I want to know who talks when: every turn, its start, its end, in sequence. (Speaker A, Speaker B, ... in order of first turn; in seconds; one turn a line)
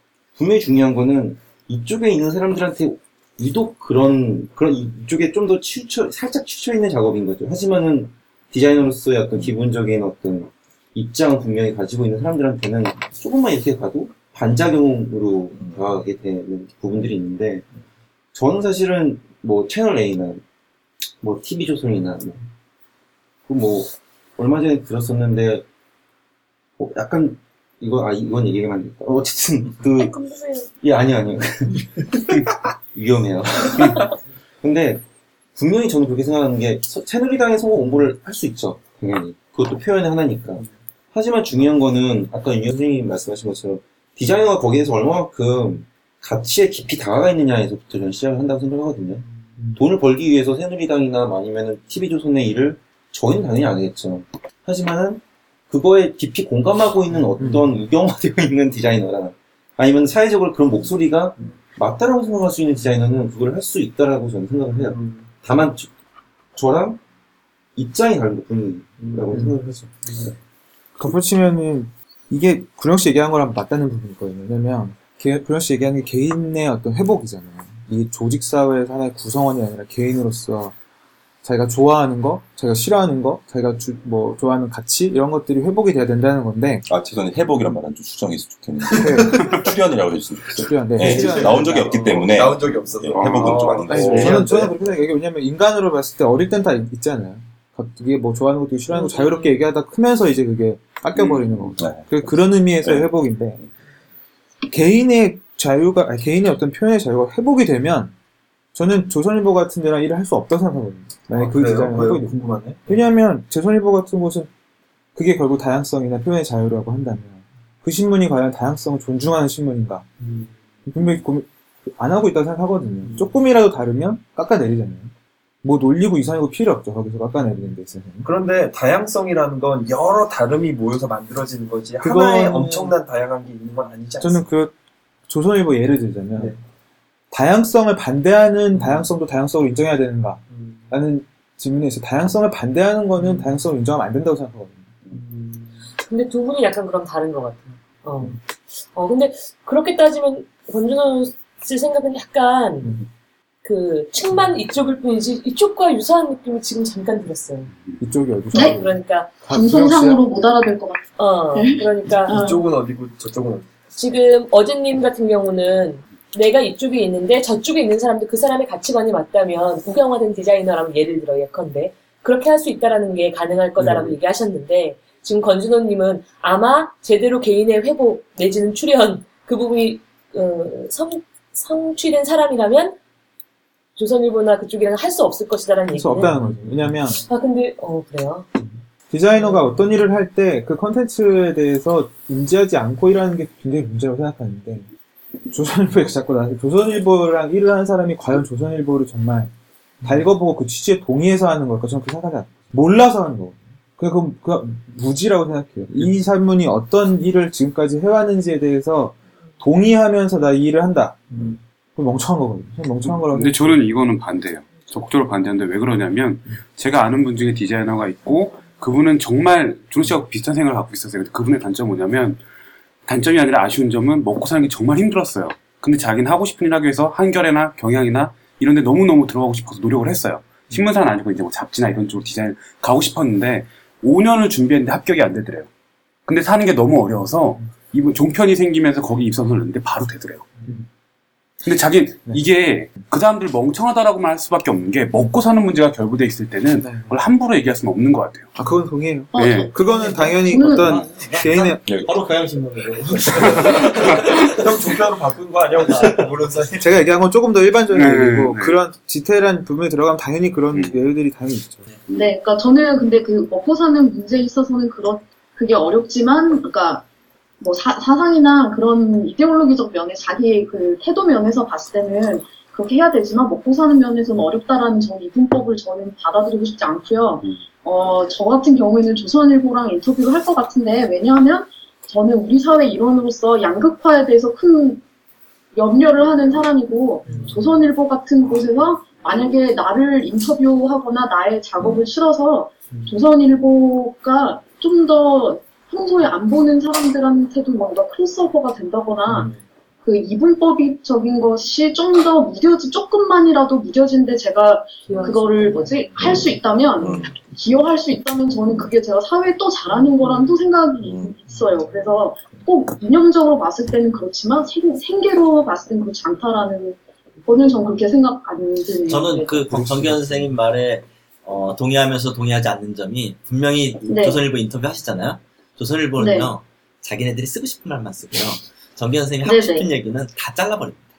Speaker A: 0.3-17.7
Speaker A: 18.3-20.4
Speaker A: 21.2-22.4
Speaker A: 23.5-25.6
Speaker A: 26.8-30.2
Speaker B: 29.9-30.7
Speaker A: 30.8-35.0
Speaker A: 35.5-65.9
Speaker C: 64.9-65.3
Speaker A: 66.5-67.0
Speaker A: 67.8-70.3
Speaker C: 69.0-69.5
Speaker D: 71.0-80.7
Speaker D: 81.4-86.9
Speaker E: 86.9-94.6
Speaker D: 88.9-89.5
Speaker D: 90.6-92.4
Speaker C: 91.0-94.7
Speaker F: 93.1-94.3
Speaker D: 93.9-103.6
Speaker B: 98.9-99.7
Speaker E: 101.1-102.1
Speaker D: 104.7-108.1
Speaker D: 108.7-112.3
Speaker C: 111.3-112.9
Speaker D: 112.9-114.5
Speaker D: 115.1-120.0
Speaker C: 120.2-120.5
Speaker D: 120.9-125.1
Speaker D: 125.6-128.3
Speaker C: 128.2-134.4
Speaker D: 132.0-133.0
Speaker D: 134.2-134.7
Speaker D: 135.3-136.6
Speaker D: 137.3-144.9
Speaker C: 138.8-139.1
Speaker C: 140.5-140.8
Speaker C: 143.2-143.6
Speaker C: 145.1-145.8
Speaker B: 146.1-148.4
Speaker B: 148.9-153.0
Speaker B: 153.6-157.7
Speaker D: 158.0-160.2
Speaker B: 158.5-159.3
Speaker G: 159.5-162.6
Speaker B: 161.2-162.6
Speaker C: 162.3-163.7
Speaker B: 163.9-183.0
Speaker B: 184.0-186.3
Speaker D: 185.9-187.2
Speaker B: 187.1-188.5
Speaker D: 189.1-194.9
Speaker B: 189.3-189.6
Speaker D: 195.5-199.5
Speaker D: 200.0-211.4
Speaker D: 211.9-213.8
Speaker F: 213.3-222.4
Speaker F: 223.1-235.7
Speaker F: 236.2-240.7
Speaker F: 241.6-248.5
Speaker D: 246.8-247.2
Speaker D: 248.6-251.9
Speaker G: 249.3-251.1
Speaker F: 249.3-249.7
Speaker H: 250.1-255.0
Speaker E: 251.8-252.2
Speaker C: 254.6-257.0
Speaker H: 255.8-256.5
Speaker D: 256.8-261.8
Speaker F: 257.9-258.8
Speaker G: 262.1-267.0
Speaker G: 267.6-285.0
Speaker G: 285.7-299.5
Speaker H: 287.2-287.6
Speaker G: 300.0-319.6
Speaker B: 305.1-306.0
Speaker E: 307.0-307.3
Speaker E: 311.0-311.4
Speaker H: 319.1-331.0
Speaker E: 319.7-320.1
Speaker G: 324.1-324.4
Speaker G: 326.1-326.5
Speaker G: 329.4-329.9